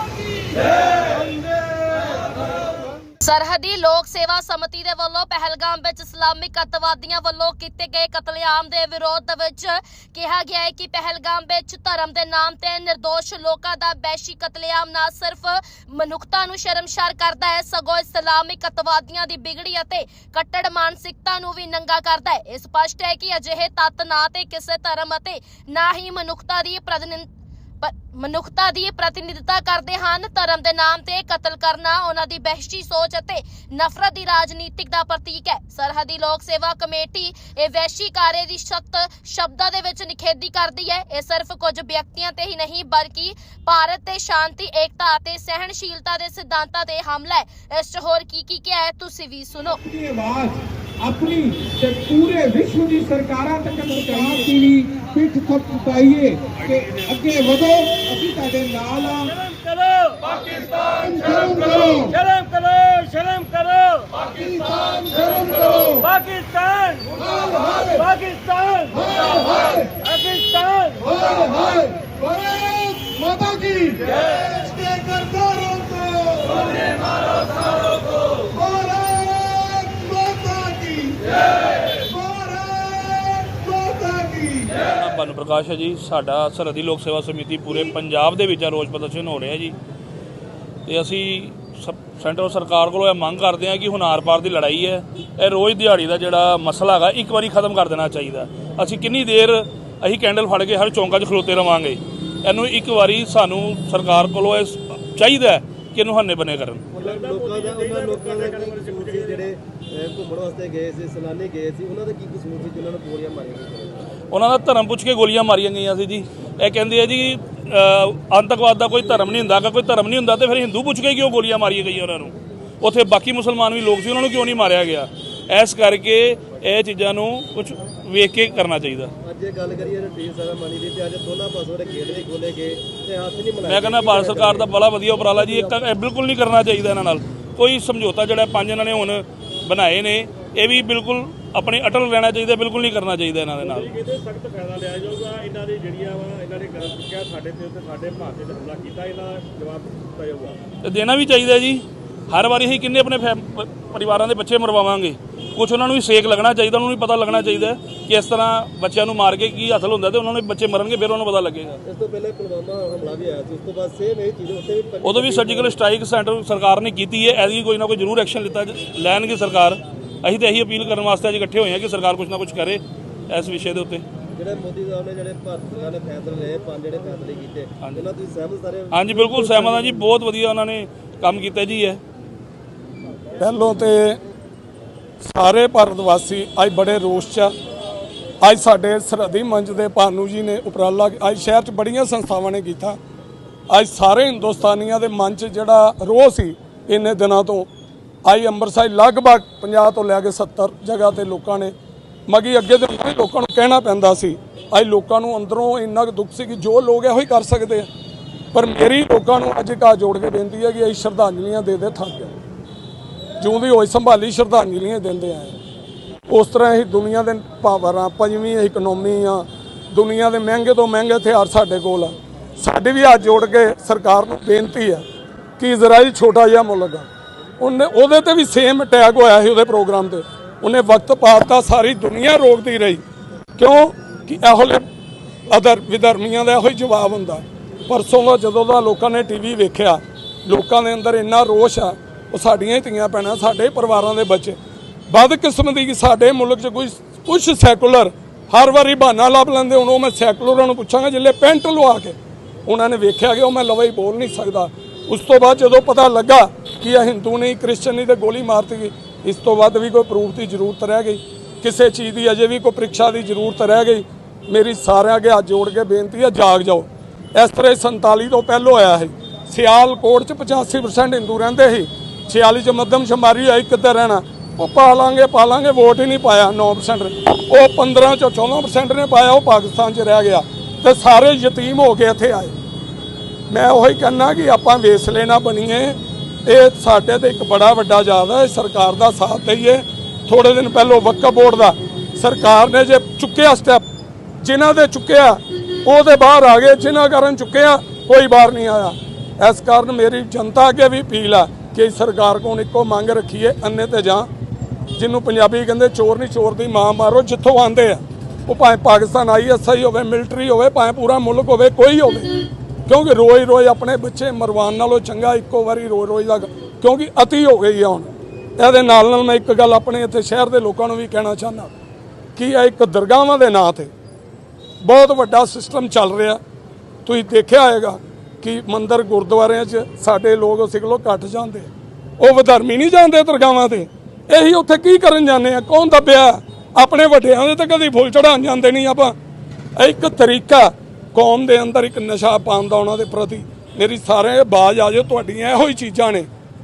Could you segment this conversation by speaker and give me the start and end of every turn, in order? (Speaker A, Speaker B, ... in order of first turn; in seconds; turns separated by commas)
Speaker A: 3.2-27.3, Speaker A: 27.8-49.8, Speaker B: 49.8-59.5, Speaker C: 59.5-60.9, Speaker B: 60.9-62.2, Speaker C: 62.2-64.2, Speaker B: 64.4-66.2, Speaker C: 66.2-67.1, Speaker B: 67.3-68.1, Speaker C: 68.1-69.5, Speaker B: 68.8-77.4, Speaker B: 78.3-84.8, Speaker D: 84.8-89.8, Speaker D: 90.8-106.8, Speaker E: 107.0-114.0, Speaker C: 107.0-109.4, Speaker D: 114.3-129.1, Speaker E: 129.2-134.7, Speaker D: 133.6-143.9, Speaker E: 135.3-135.7, Speaker C: 143.6-150.6, Speaker D: 150.8-161.8, Speaker E: 161.8-165.8, Speaker D: 165.0-174.0, Speaker E: 174.3-180.0, Speaker D: 178.9-182.0, Speaker F: 183.4-184.2, Speaker F: 185.2-187.5, Speaker F: 188.4-193.0, Speaker F: 193.7-197.7, Speaker F: 198.2-201.7, Speaker F: 202.3-207.9, Speaker F: 208.5-212.3, Speaker F: 213.4-215.5, Speaker F: 216.3-225.0, Speaker F: 225.6-227.1, Speaker F: 227.6-233.0, Speaker F: 233.6-234.8, Speaker F: 235.5-244.6, Speaker F: 245.1-282.5, Speaker F: 283.5-293.8, Speaker F: 294.4-304.3, Speaker F: 304.9-312.3, Speaker F: 312.9-321.7, Speaker F: 322.4-323.9, Speaker F: 324.8-326.4, Speaker F: 327.1-339.1, Speaker F: 339.8-346.3